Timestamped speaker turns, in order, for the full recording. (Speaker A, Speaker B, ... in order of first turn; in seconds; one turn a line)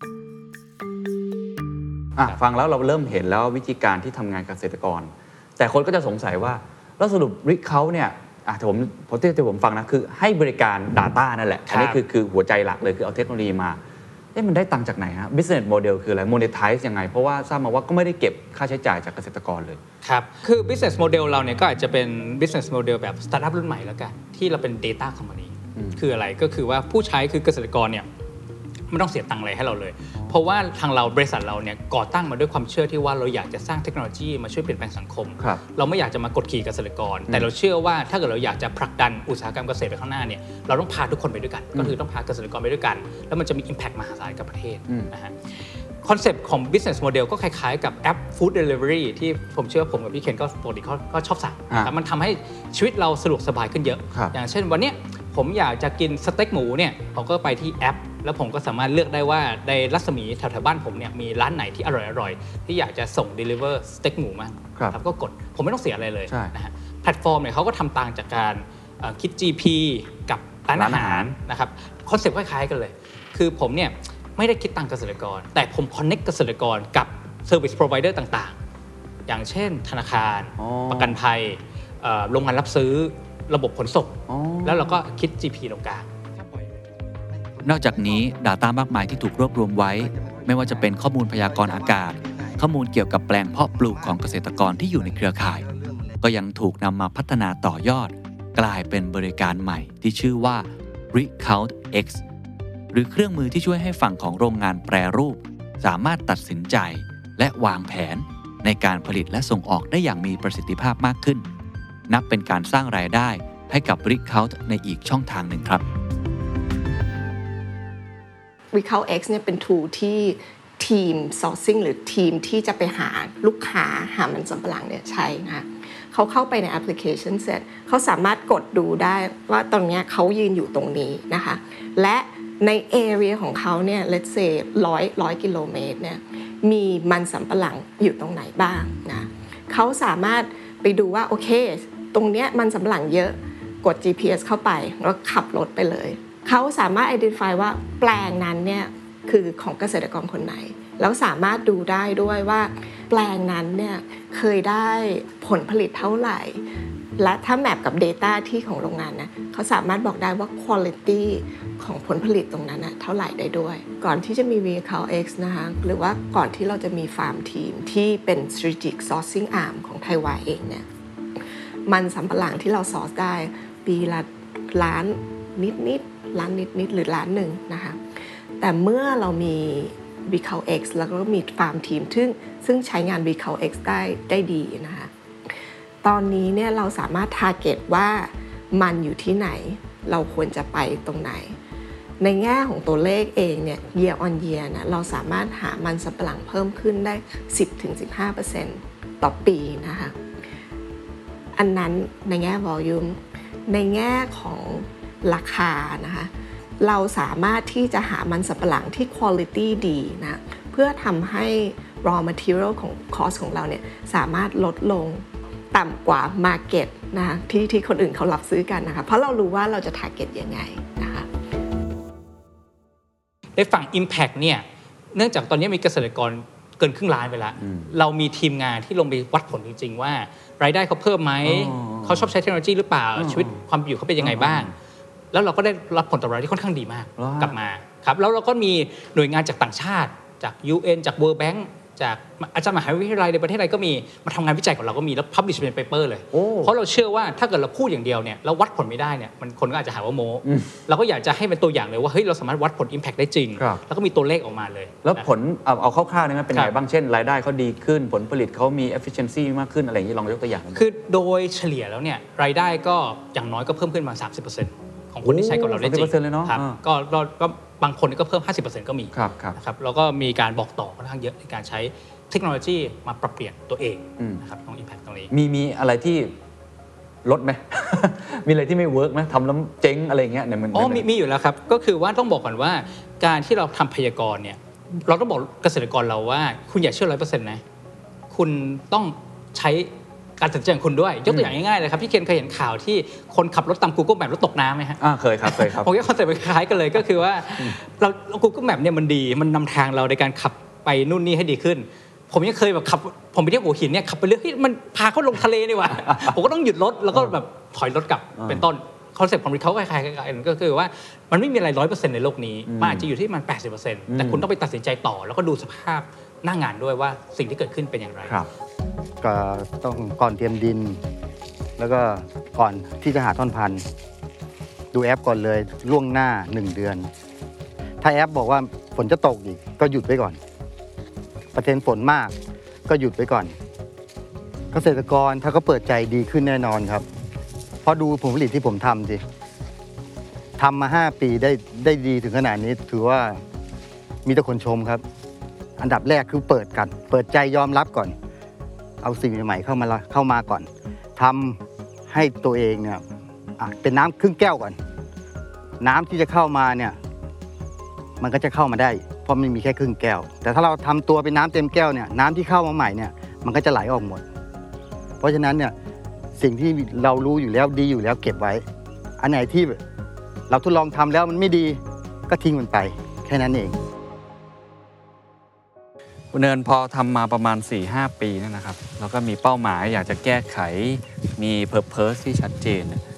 Speaker A: 2.1-13.8
Speaker B: 11.7-12.0
Speaker A: 14.3-19.8
Speaker B: 20.0-28.1
Speaker A: 25.8-26.0
Speaker B: 28.9-45.4
Speaker B: 46.0-78.5
Speaker A: 66.3-66.5
Speaker A: 70.7-71.3
Speaker B: 79.3-86.1
Speaker A: 80.6-81.2
Speaker A: 84.3-85.0
Speaker C: 87.3-88.3
Speaker D: 87.6-95.7
Speaker C: 90.0-92.7
Speaker C: 93.6-96.2
Speaker D: 96.2-102.2
Speaker D: 102.9-111.4
Speaker D: 112.1-115.8
Speaker E: 118.7-156.6
Speaker E: 157.2-170.8
Speaker E: 171.9-178.0
Speaker E: 178.6-185.1
Speaker E: 186.0-191.6
Speaker E: 192.2-200.2
Speaker E: 201.6-221.3
Speaker B: 223.6-234.7
Speaker A: 227.6-227.9
Speaker A: 231.4-232.3
Speaker A: 233.2-233.6
Speaker A: 234.2-234.7
Speaker B: 235.3-255.3
Speaker A: 237.2-237.6
Speaker A: 246.3-246.7
Speaker A: 250.4-250.7
Speaker A: 255.0-260.9
Speaker B: 260.7-275.3
Speaker A: 265.2-266.8
Speaker A: 269.1-269.6
Speaker A: 274.2-274.4
Speaker A: 275.3-276.3
Speaker A: 277.2-281.0
Speaker B: 280.7-287.6
Speaker B: 288.3-318.4
Speaker A: 291.3-291.5
Speaker A: 295.0-295.9
Speaker A: 306.0-306.3
Speaker A: 308.4-308.6
Speaker A: 312.7-313.1
Speaker A: 314.1-314.4
Speaker C: 319.2-321.0
Speaker C: 321.8-323.8
Speaker C: 324.9-327.1
Speaker C: 328.0-330.4
Speaker C: 331.5-332.3
Speaker C: 332.9-333.5
Speaker C: 334.7-337.1
Speaker C: 337.8-339.2
Speaker C: 340.6-343.4
Speaker C: 344.2-345.0
Speaker C: 345.8-348.1
Speaker C: 349.0-353.0
Speaker C: 353.6-354.8
Speaker C: 355.8-357.0
Speaker C: 358.2-364.2
Speaker C: 365.2-365.7
Speaker C: 366.4-368.6
Speaker C: 369.2-369.8
Speaker C: 370.5-373.8
Speaker A: 376.3-383.0